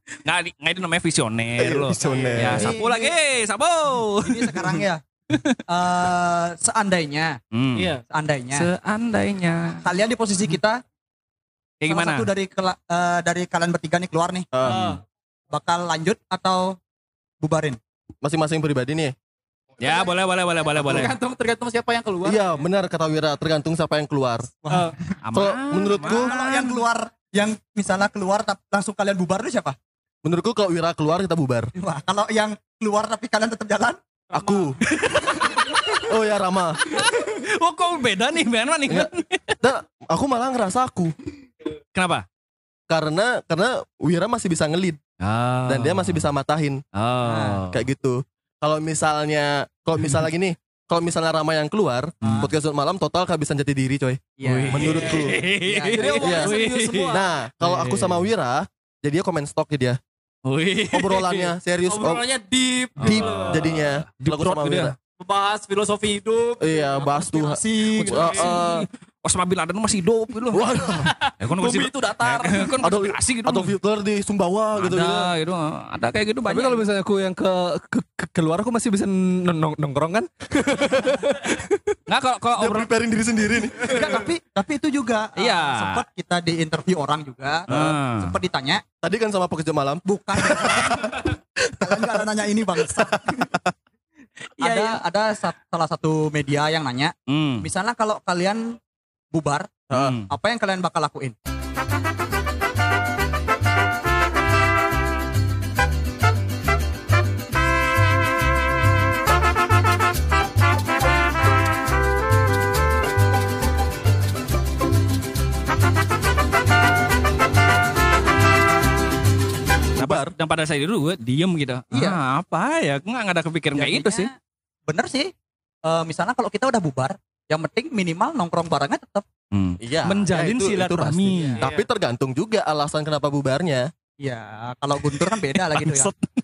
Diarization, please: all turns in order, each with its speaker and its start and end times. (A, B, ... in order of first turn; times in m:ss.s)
0:00.2-0:04.7 A
0:01.6-0:02.8 B
0:02.0-0:02.7 C
0:02.5-0:03.1 D
0:04.2-0:05.0 D
0:05.3-0:05.6 A
0:05.7-0:07.4 D
0:07.5-0:07.9 A
0:07.8-0:08.0 C
0:08.1-0:08.7 D
0:08.5-0:09.8 A
0:09.8-0:10.8 D
0:11.8-0:12.3 A
0:11.9-0:14.5 D
0:14.5-0:14.9 B
0:14.6-0:15.0 C
0:15.5-0:16.8 D
0:17.4-0:17.8 D
0:18.2-0:19.2 B
0:19.8-0:21.2 A
0:19.8-0:20.1 C
0:20.7-0:22.6 C
0:22.2-0:24.5 B
0:24.6-0:25.0 D
0:24.7-0:25.0 C
0:25.2-0:26.8 A
0:25.3-0:26.3 B
0:26.0-0:29.8 D
0:30.2-0:31.7 B
0:31.8-0:34.0 D
0:34.3-0:34.8 C
0:34.3-0:34.8 B
0:34.9-0:36.0 A
0:36.0-0:37.0 B
0:36.9-0:39.6 A
0:39.6-0:41.1 B
0:42.0-0:42.2 A
0:42.9-0:45.0 B
0:45.2-0:46.3 A
0:45.7-0:46.8 B
0:47.0-0:47.8 A
0:47.2-0:47.6 D
0:47.7-0:55.4 B
0:52.2-0:52.5 D
0:54.4-0:56.2 D
0:54.4-0:58.2 A
0:54.9-0:55.4 C
0:56.0-0:57.2 C
0:56.2-0:56.5 B
0:57.1-1:00.0 B
1:00.4-1:01.5 A
1:00.9-1:02.2 B
1:01.9-1:03.8 C
1:03.0-1:04.9 A
1:03.0-1:04.9 B
1:05.2-1:08.5 C
1:06.6-1:08.9 B
1:07.3-1:08.4 D
1:08.4-1:13.7 A
1:10.5-1:11.1 B
1:11.0-1:12.8 C
1:12.8-1:15.3 B
1:14.8-1:16.8 A
1:16.5-1:22.0 E
1:22.1-1:22.9 A
1:22.6-1:24.2 B
1:23.8-1:28.8 D
1:25.4-1:26.0 A
1:27.7-1:28.0 B
1:27.7-1:28.3 A
1:29.0-1:32.2 B
1:30.0-1:33.5 D
1:32.9-1:33.7 B
1:34.6-1:38.8 D
1:37.3-1:37.6 A
1:39.3-1:39.8 D
1:39.9-1:40.2 B
1:39.9-1:40.3 A
1:40.3-1:41.4 D
2:00.0-2:00.3 B
2:00.0-2:04.3 A
2:01.9-2:02.2 D
2:03.8-2:04.3 D
2:04.9-2:05.3 D
2:05.8-2:09.2 D
2:09.5-2:11.6 A
2:09.8-2:13.9 B
2:11.3-2:11.6 D
2:11.6-2:11.9 C
2:14.2-2:16.1 D
2:15.6-2:16.3 A